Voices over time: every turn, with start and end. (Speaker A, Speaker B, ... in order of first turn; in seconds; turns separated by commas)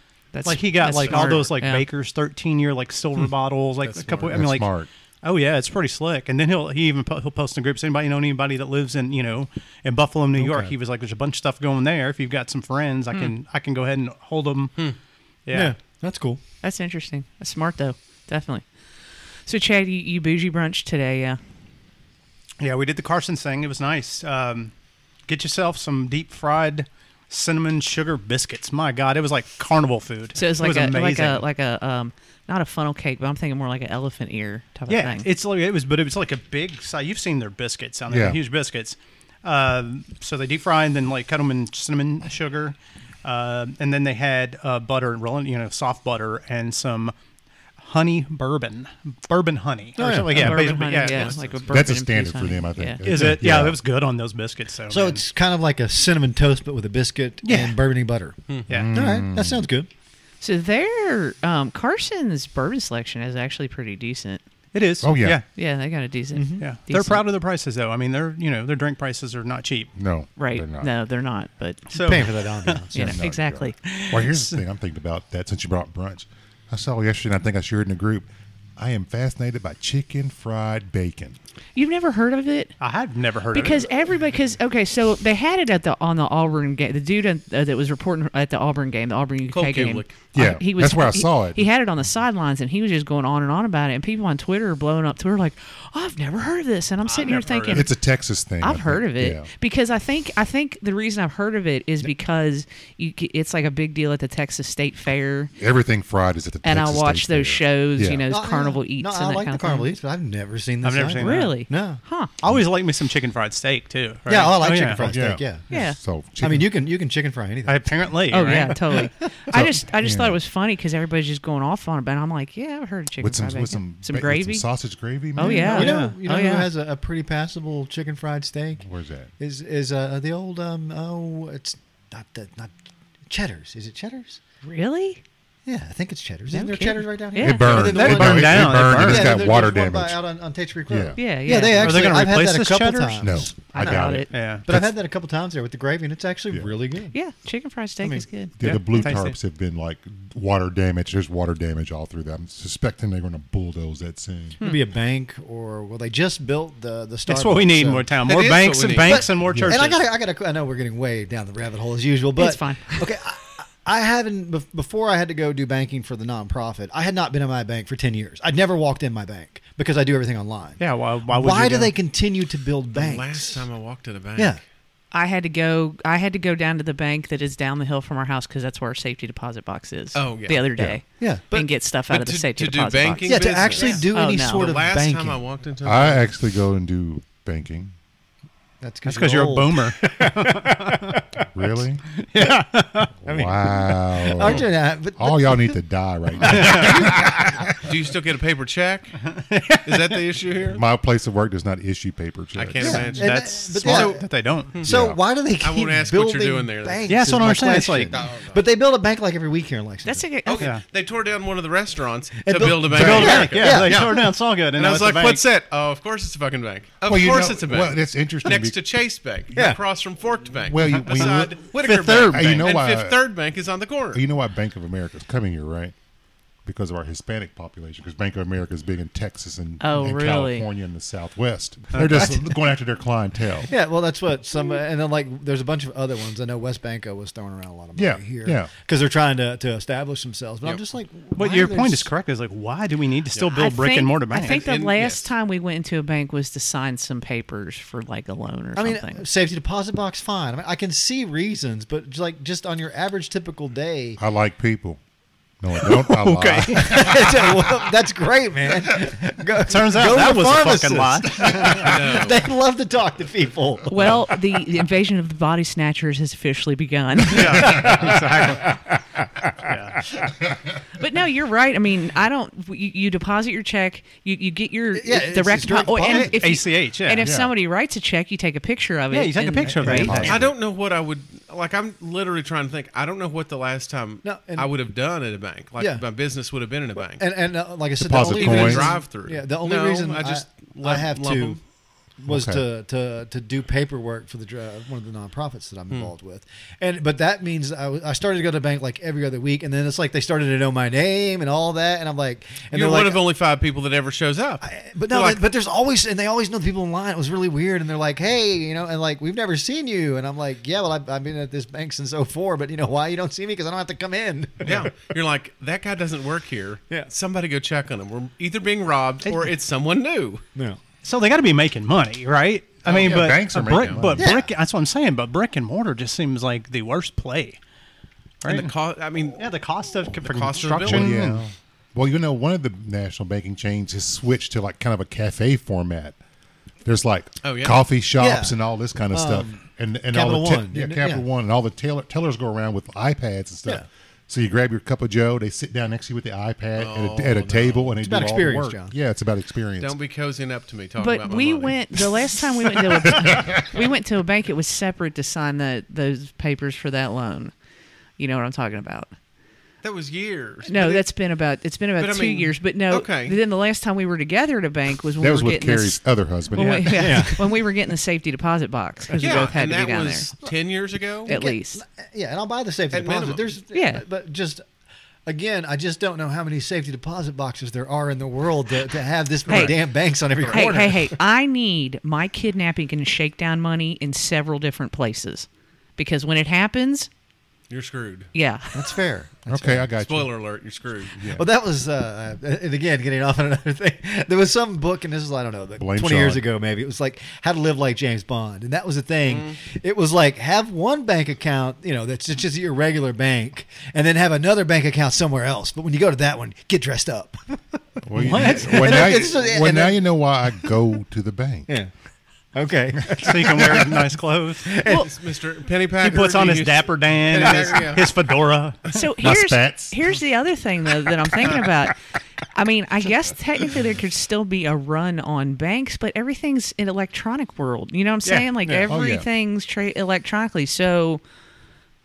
Speaker A: 0.3-1.9, Speaker B: 0.5-4.7, Speaker C: 3.9-4.3, Speaker D: 4.3-4.9, Speaker B: 5.2-14.9, Speaker E: 10.4-10.7, Speaker B: 15.5-15.7, Speaker E: 15.5-16.4, Speaker A: 16.6-18.7, Speaker A: 19.5-21.4, Speaker B: 22.6-24.7, Speaker B: 25.3-31.4, Speaker A: 30.4-35.3, Speaker B: 34.9-47.1, Speaker D: 38.1-38.4, Speaker B: 47.8-51.6, Speaker E: 50.0-50.5, Speaker A: 50.3-53.0, Speaker C: 51.0-51.6, Speaker D: 51.7-53.8, Speaker B: 53.0-55.2, Speaker E: 54.9-58.4, Speaker B: 57.4-57.8, Speaker B: 58.7-59.1, Speaker D: 58.7-59.7, Speaker E: 58.9-59.9, Speaker A: 60.4-64.4, Speaker B: 64.7-65.5, Speaker D: 65.0-65.4, Speaker A: 65.5-67.2, Speaker E: 66.3-66.7, Speaker B: 66.6-69.9, Speaker D: 70.0-70.9, Speaker A: 70.4-72.3, Speaker B: 71.9-72.9, Speaker E: 72.0-73.1, Speaker A: 72.9-73.8, Speaker D: 72.9-81.4, Speaker B: 73.8-74.6, Speaker A: 81.8-82.8, Speaker B: 82.8-84.0, Speaker A: 83.5-97.9, Speaker C: 89.5-90.2, Speaker D: 90.3-91.7, Speaker B: 97.0-97.9, Speaker D: 97.7-99.5, Speaker A: 98.6-105.5, Speaker D: 105.6-108.2, Speaker A: 106.6-109.9, Speaker E: 108.3-112.0, Speaker B: 110.8-111.7, Speaker A: 111.2-112.3, Speaker B: 112.4-115.0, Speaker E: 114.3-115.6, Speaker D: 115.0-116.7, Speaker A: 115.7-116.0, Speaker E: 116.4-119.1, Speaker B: 117.7-118.8, Speaker A: 118.3-124.7, Speaker D: 119.5-120.4, Speaker D: 123.2-125.9, Speaker A: 125.4-126.7, Speaker E: 125.4-128.8, Speaker B: 125.7-126.2, Speaker D: 128.8-129.3, Speaker E: 129.4-132.7, Speaker E: 133.3-134.4, Speaker A: 134.6-135.2, Speaker E: 135.7-143.5, Speaker A: 136.5-137.9, Speaker D: 137.4-140.2, Speaker B: 137.7-139.4, Speaker D: 140.9-141.2, Speaker A: 141.2-142.1, Speaker B: 141.7-143.5, Speaker D: 143.2-144.9, Speaker A: 143.7-144.3, Speaker B: 144.3-144.7, Speaker E: 144.7-147.2, Speaker A: 147.1-149.1, Speaker D: 148.6-154.6, Speaker B: 148.6-149.4, Speaker E: 154.6-158.1, Speaker B: 157.3-160.1, Speaker C: 158.2-159.3, Speaker E: 159.0-173.7, Speaker D: 159.4-159.9, Speaker A: 162.4-163.1, Speaker B: 170.8-171.9, Speaker C: 172.9-174.6, Speaker A: 175.1-184.7, Speaker C: 180.2-180.7, Speaker E: 181.2-181.7, Speaker C: 182.1-186.3, Speaker E: 183.3-185.4, Speaker D: 185.8-187.9, Speaker E: 188.8-191.5, Speaker B: 189.0-191.1, Speaker D: 191.5-192.0, Speaker B: 192.2-192.7, Speaker E: 192.3-195.8, Speaker D: 193.2-197.8, Speaker C: 194.4-194.7, Speaker B: 196.4-197.1, Speaker C: 196.7-197.2, Speaker C: 197.8-199.3, Speaker B: 199.2-200.2, Speaker C: 199.8-200.8, Speaker D: 200.7-203.2, Speaker C: 202.6-204.2, Speaker E: 202.8-210.2, Speaker B: 203.2-204.8, Speaker D: 204.8-205.2, Speaker C: 205.6-207.0, Speaker B: 207.1-208.2, Speaker C: 208.1-208.6, Speaker A: 210.1-210.7, Speaker C: 210.4-224.2, Speaker E: 212.4-214.2, Speaker B: 212.9-215.4, Speaker D: 212.9-213.4, Speaker D: 217.1-218.8, Speaker E: 219.5-219.8, Speaker D: 220.7-221.6, Speaker B: 221.1-222.7, Speaker D: 222.3-223.3, Speaker D: 224.1-225.9, Speaker D: 226.7-233.7, Speaker A: 229.8-230.7, Speaker B: 231.9-232.3, Speaker E: 233.7-242.1, Speaker D: 237.9-238.7, Speaker B: 241.3-244.7, Speaker A: 243.5-249.2, Speaker C: 244.4-245.3, Speaker E: 248.8-254.2, Speaker D: 254.2-255.0, Speaker D: 255.6-257.8, Speaker B: 255.8-257.2, Speaker E: 256.8-264.2, Speaker B: 259.7-261.6, Speaker C: 261.6-262.4, Speaker A: 263.9-267.9, Speaker B: 267.3-268.8, Speaker E: 267.4-268.8, Speaker B: 269.7-270.0, Speaker A: 271.0-280.3, Speaker E: 274.9-276.6, Speaker B: 276.1-277.3, Speaker D: 277.2-277.5, Speaker B: 279.1-280.4, Speaker E: 279.9-280.3, Speaker D: 279.9-280.6, Speaker C: 280.2-287.2, Speaker E: 284.2-284.7, Speaker E: 287.2-291.6, Speaker D: 288.0-289.0, Speaker C: 288.2-291.6, Speaker E: 292.2-303.2, Speaker D: 292.3-292.6, Speaker C: 302.7-305.4, Speaker E: 304.6-314.9, Speaker C: 314.6-320.4, Speaker E: 320.6-320.8, Speaker B: 321.0-327.6, Speaker C: 322.9-324.0, Speaker D: 322.9-324.3, Speaker E: 324.2-324.5, Speaker B: 328.4-328.7, Speaker C: 328.5-329.4, Speaker B: 329.4-331.4, Speaker C: 330.2-331.2, Speaker D: 330.9-336.2, Speaker D: 336.9-350.0, Speaker C: 337.4-337.8, Speaker E: 338.2-338.6, Speaker E: 339.1-339.6, Speaker E: 340.1-341.2, Speaker C: 346.8-347.9, Speaker E: 348.0-348.9, Speaker C: 349.8-351.8, Speaker A: 351.0-357.5, Speaker D: 353.0-353.6, Speaker A: 358.2-359.1, Speaker C: 359.8-361.0, Speaker A: 360.7-370.3, Speaker C: 362.0-363.4, Speaker D: 365.2-367.3, Speaker B: 366.6-367.0, Speaker E: 367.0-367.4, Speaker E: 369.1-369.5, Speaker C: 369.2-371.3, Speaker E: 371.3-374.6, Speaker A: 371.3-371.8, Speaker C: 372.9-373.5, Speaker A: 373.7-374.0, Speaker E: 375.3-381.2, Speaker C: 379.5-379.8, Speaker A: 379.5-379.8, Speaker C: 380.4-380.8, Speaker A: 380.4-387.1, Speaker C: 387.7-388.3, Speaker A: 388.3-388.9, Speaker E: 388.7-389.9, Speaker D: 389.5-390.3, Speaker C: 390.0-391.2, Speaker D: 391.2-391.5, Speaker E: 391.4-410.1, Speaker D: 395.8-396.4, Speaker C: 399.2-399.6, Speaker D: 408.1-411.7, Speaker B: 408.2-408.9, Speaker E: 412.5-414.1, Speaker B: 413.1-414.8, Speaker E: 414.6-415.1, Speaker C: 414.8-418.2, Speaker B: 416.0-419.0, Speaker A: 418.9-422.0, Speaker D: 419.2-420.1, Speaker A: 422.5-431.2, Speaker B: 428.2-428.8, Speaker E: 428.6-428.9, Speaker D: 428.9-429.3